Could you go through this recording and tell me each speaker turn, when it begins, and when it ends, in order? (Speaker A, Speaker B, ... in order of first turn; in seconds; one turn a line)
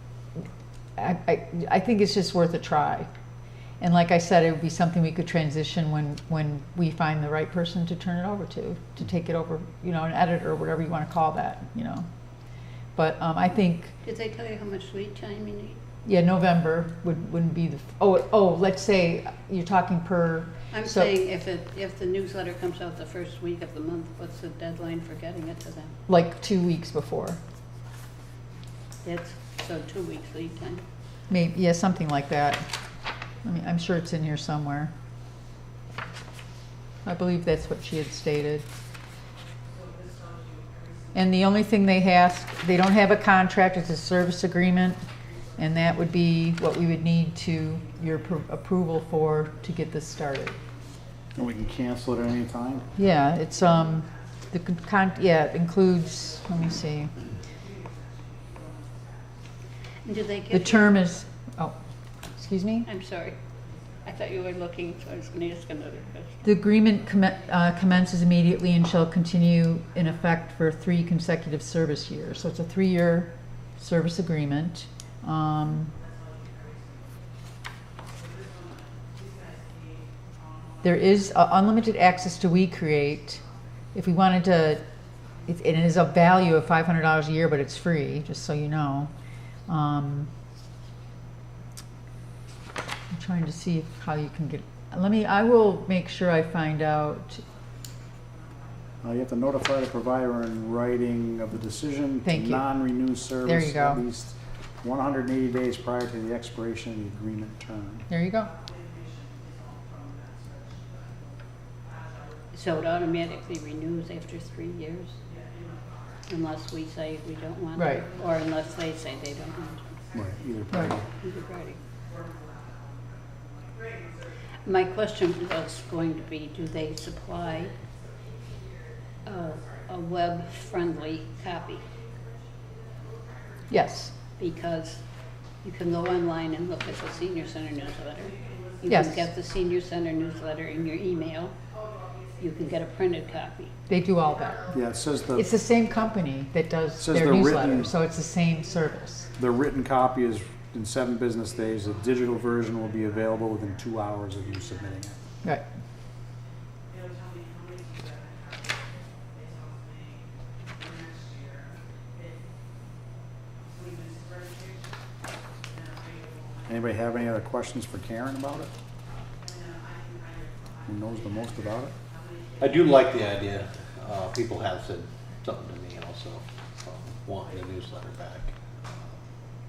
Speaker A: 1.0-3.1
Speaker A: 3.8-12.1
Speaker A: 12.9-13.9
Speaker B: 14.0-15.8
Speaker A: 16.1-21.1
Speaker B: 20.7-26.0
Speaker A: 26.1-27.4
Speaker B: 29.0-30.8
Speaker A: 31.3-32.7
Speaker A: 33.4-34.9
Speaker A: 37.0-38.6
Speaker A: 41.1-45.0
Speaker A: 45.6-50.6
Speaker C: 51.4-52.9
Speaker A: 53.0-57.1
Speaker B: 60.0-61.1
Speaker A: 60.5-61.8
Speaker A: 62.4-62.9
Speaker B: 62.9-63.4
Speaker B: 64.0-66.5
Speaker A: 66.4-75.9
Speaker A: 80.8-83.4
Speaker A: 83.9-84.8
Speaker A: 85.5-89.1
Speaker A: 89.7-90.3
Speaker A: 93.1-97.4
Speaker C: 99.0-108.1
Speaker A: 102.3-102.6
Speaker A: 103.4-104.0
Speaker A: 108.1-108.5
Speaker B: 112.5-115.2
Speaker B: 116.3-120.0
Speaker A: 117.8-118.0
Speaker C: 120.1-121.1
Speaker B: 121.2-121.8
Speaker B: 124.6-127.8
Speaker B: 129.2-131.8
Speaker A: 133.7-134.1
Speaker B: 134.4-135.0
Speaker B: 135.6-141.6
Speaker A: 138.9-139.2
Speaker B: 142.4-143.7
Speaker A: 143.9-144.7
Speaker C: 144.7-145.5
Speaker A: 145.3-149.3
Speaker C: 147.0-147.9
Speaker C: 149.4-155.2
Speaker C: 166.7-168.7
Speaker C: 170.9-171.9
Speaker D: 172.6-179.2